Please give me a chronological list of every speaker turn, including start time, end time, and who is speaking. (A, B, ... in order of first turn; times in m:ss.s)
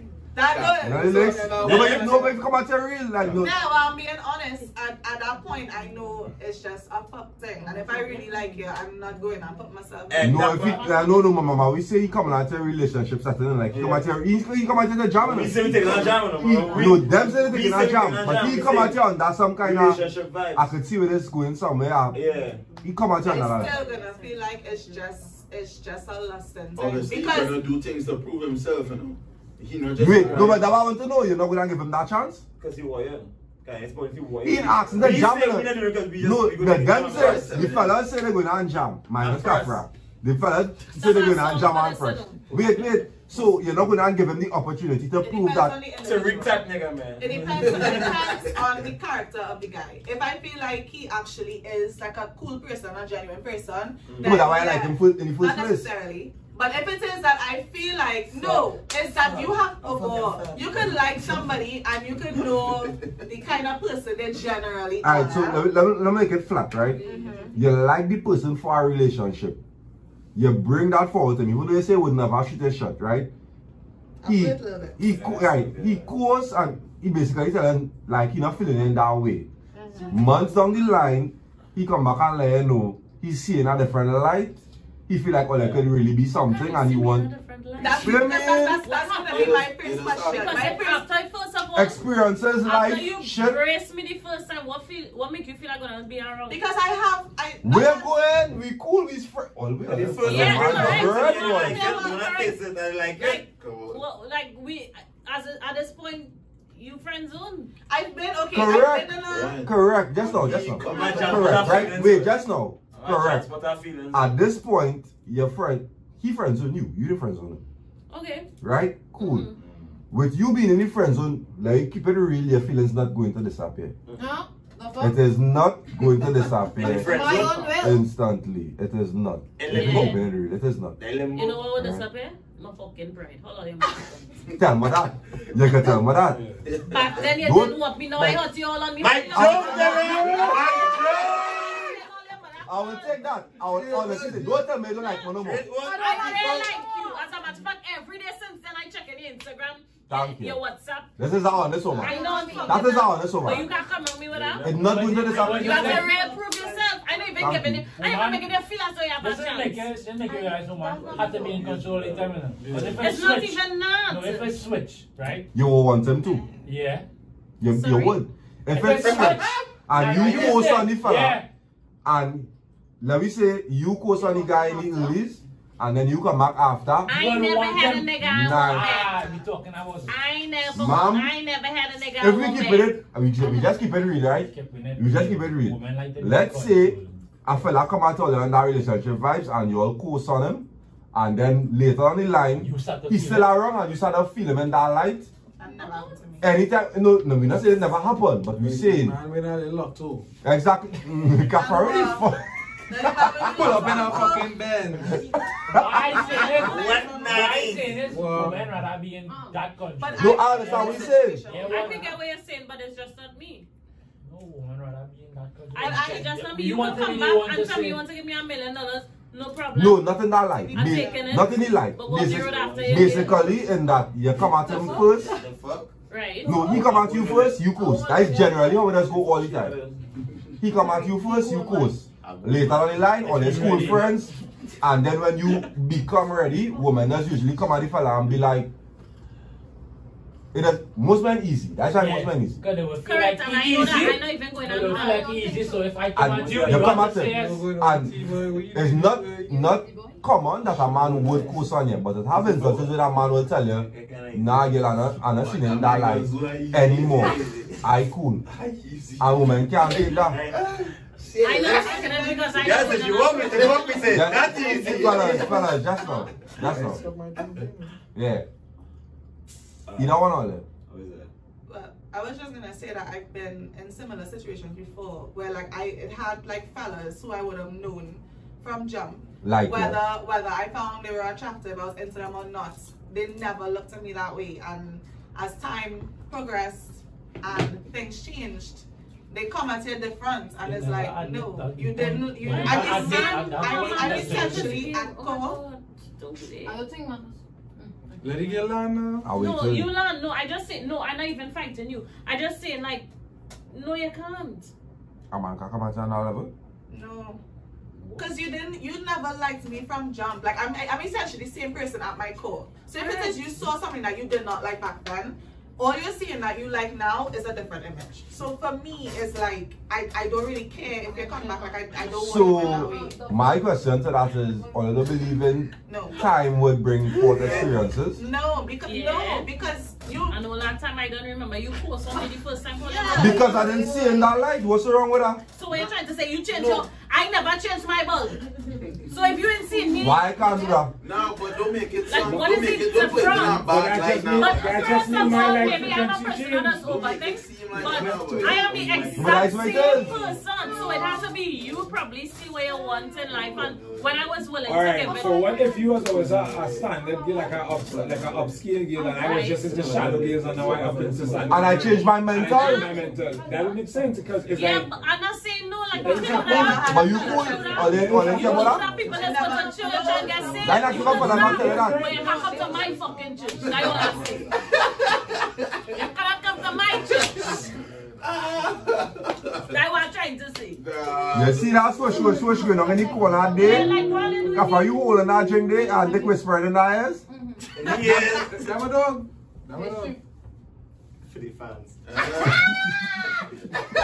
0:00.3-0:02.1 A
0:00.4-0:02.3 B
0:00.8-0:03.6 C
0:01.6-0:02.2 D
0:03.3-0:10.3 A
0:10.1-0:10.9 D
0:10.2-0:22.2 C
0:10.7-0:11.0 E
0:13.7-0:14.1 D
0:15.2-0:19.0 D
0:19.6-0:20.7 D
0:22.1-0:22.6 D
0:22.8-0:23.7 C
0:23.2-0:27.6 A
0:23.6-0:24.2 F
0:26.8-0:30.7 B
0:30.0-0:32.4 C
0:30.0-0:30.6 D
0:32.6-0:37.9 D
0:34.4-0:45.8 C
0:37.0-0:37.9 B
0:39.2-0:39.8 D
0:40.9-0:42.4 E
0:45.2-1:05.7 A
0:46.0-0:48.4 D
0:54.1-0:54.4 D
0:54.2-0:55.9 C
0:58.3-1:01.0 D
1:05.0-1:07.0 C
1:07.0-1:07.6 A
1:07.1-1:07.4 F
1:07.5-1:09.6 C
1:10.3-1:13.3 C
1:14.2-1:15.0 A
1:14.2-1:19.5 C
1:15.0-1:16.1 D
1:19.7-1:20.2 A
1:20.1-1:28.8 C
1:26.4-1:29.6 E
1:27.8-1:31.0 A
1:29.3-1:30.7 B
1:30.2-1:32.0 E
1:31.7-1:33.6 C
1:32.6-1:36.6 E
1:36.5-1:38.2 A
1:37.6-1:41.9 C
1:39.8-1:43.4 D
1:40.2-1:42.6 E
1:41.7-1:42.2 A
1:43.2-1:47.7 E
1:43.4-1:44.0 B
1:47.9-1:49.6 A
1:48.5-1:53.5 C
1:49.2-1:51.9 B
1:50.8-1:52.4 D
1:50.9-1:51.5 E
1:52.9-1:54.3 D
1:54.1-1:57.6 C
1:58.1-1:58.5 E
1:58.6-1:59.5 C
1:59.2-1:59.6 E
1:59.6-1:59.9 D
2:00.1-2:03.9 C
2:04.2-2:05.2 F
2:05.0-2:10.9 C
2:06.7-2:07.8 D
2:06.8-2:08.0 F
2:09.6-2:10.2 D
2:09.7-2:10.1 E
2:11.0-2:11.6 D
2:11.3-2:14.2 E
2:11.7-2:12.0 C
2:14.5-2:16.4 C
2:16.3-2:16.6 G
2:16.6-2:17.4 B
2:16.9-2:20.6 E
2:17.3-2:18.4 C
2:19.0-2:21.8 D
2:19.3-2:20.2 C
2:19.9-2:23.1 A
2:20.4-2:21.7 B
2:21.9-2:23.0 E
2:22.6-2:25.6 C
2:23.6-2:24.6 B
2:25.3-2:26.7 D
2:25.8-2:27.2 F
2:26.0-2:41.5 E
2:30.1-2:30.6 C
2:31.2-2:33.6 C
2:32.0-2:33.8 F
2:32.2-2:32.6 A
2:34.3-2:36.0 D
2:34.6-2:35.8 C
2:34.8-2:36.2 H
2:35.6-2:36.8 A
2:37.4-2:37.8 C
2:37.9-2:38.5 H
2:39.2-2:45.5 H
2:41.0-2:42.2 D
2:42.6-2:43.1 G
2:43.0-2:44.6 E
2:45.5-2:46.4 C
2:46.2-2:46.6 A
2:46.6-2:47.1 H
2:47.6-2:51.4 C
2:47.7-2:48.2 E
2:48.7-2:51.5 H
2:49.0-2:49.3 D
2:50.0-2:50.5 D
2:52.0-2:52.5 C
2:53.0-2:57.2 C
2:54.2-2:55.1 F
2:57.0-3:00.1 H
2:57.1-2:59.4 E
2:58.2-2:59.0 C
3:00.1-3:03.0 E
3:00.7-3:01.3 C
3:02.2-3:15.3 C
3:04.1-3:07.2 H
3:12.6-3:13.6 H
3:15.6-3:16.5 A
3:16.4-3:19.2 C
3:18.5-3:20.2 G
3:20.4-3:24.2 C
3:21.4-3:27.6 A
3:23.4-3:25.2 G
3:25.7-3:32.1 H
3:25.7-3:26.3 C
3:26.5-3:28.0 D
3:28.0-3:28.8 G
3:29.3-3:29.6 F
3:30.0-3:32.1 A
3:30.2-3:31.5 C
3:31.6-3:33.7 E
3:34.2-3:38.0 H
3:35.7-3:40.1 E
3:35.8-3:36.3 A
3:39.7-3:45.3 C
3:40.6-3:41.5 A
3:40.7-3:43.6 E
3:42.1-3:43.6 D
3:44.3-3:45.9 D
3:46.1-3:46.6 E
3:46.4-3:49.7 C
3:46.5-3:47.6 D
3:47.8-3:48.7 F
3:48.8-3:50.0 D
3:50.6-3:54.3 C
3:50.8-3:52.0 F
3:52.2-3:54.0 D
3:53.3-3:54.2 G
3:53.6-3:53.9 H
3:54.8-3:58.7 C
4:00.5-4:02.6 C
4:01.9-4:07.7 H
4:03.0-4:05.5 E
4:04.8-4:05.9 F
4:06.1-4:18.4 C
4:06.2-4:07.2 D
4:07.2-4:09.5 G
4:09.5-4:10.2 F
4:10.6-4:11.7 D
4:12.3-4:17.9 D
4:18.5-4:20.6 D
4:19.2-4:20.4 C
4:19.9-4:22.3 B
4:21.4-4:24.1 E
4:21.6-4:23.7 A
4:22.5-4:25.5 D
4:23.5-4:25.8 B
4:24.1-4:27.0 C
4:26.8-4:27.6 B
4:28.1-4:28.4 C
4:29.9-4:30.3 D
4:30.0-4:30.6 C
4:30.8-4:31.3 D
4:31.7-4:55.6 A
4:39.4-4:40.0 C
4:50.6-4:54.9 H
4:52.4-4:56.8 E
4:56.6-4:58.6 F
4:58.2-4:59.3 G
4:59.2-4:59.9 C
4:59.3-5:03.0 E
5:03.7-5:04.7 E
5:05.3-5:06.5 C
5:06.9-5:07.4 A
5:08.2-5:23.2 A
5:13.0-5:13.4 E
5:21.1-5:23.8 F
5:22.0-5:28.2 C
5:24.4-5:24.8 F
5:25.9-5:26.3 A
5:27.2-5:27.7 D
5:27.4-5:30.4 A
5:28.8-5:29.5 E
5:30.3-5:33.7 E
5:32.8-5:34.2 A
5:33.0-5:33.9 F
5:33.1-5:35.4 C
5:35.6-5:40.7 E
5:39.7-5:40.8 F
5:40.0-5:40.9 C
5:41.0-5:46.0 B
5:42.0-5:43.7 E
5:42.2-5:47.0 I
5:44.3-5:55.6 E
5:46.8-5:49.1 B
5:48.4-5:51.2 D
5:49.2-5:50.2 C
5:53.3-5:54.2 D
5:54.6-6:04.9 I
5:55.0-5:56.0 F
5:56.1-5:56.8 D
5:56.8-5:57.8 F
5:57.9-5:58.4 D
5:58.9-5:59.6 F
5:59.2-5:59.7 E
5:59.6-6:02.2 G
5:59.7-6:00.8 D
6:01.5-6:02.9 C
6:02.7-6:03.8 F
6:04.5-6:14.5 E
6:06.0-6:07.0 I
6:06.0-6:11.6 A
6:06.8-6:08.8 C
6:08.0-6:08.4 I
6:08.4-6:14.6 F
6:10.6-6:12.1 C
6:11.1-6:12.1 G
6:11.2-6:12.0 I
6:12.3-6:12.7 A
6:13.8-6:14.2 B
6:14.7-6:15.4 B
6:15.9-6:17.7 E
6:17.2-6:17.5 B
6:18.2-6:19.7 B
6:19.7-6:20.8 E
6:20.7-6:22.2 B
6:21.3-6:24.0 C
6:22.0-6:24.5 F
6:23.5-6:25.0 E
6:23.8-6:24.1 G
6:24.5-6:27.2 C
6:25.5-6:26.3 F
6:27.3-6:27.7 F
6:27.8-6:28.8 D
6:27.8-6:30.2 G
6:29.7-6:30.2 F
6:31.2-6:32.6 D
6:32.0-6:32.6 B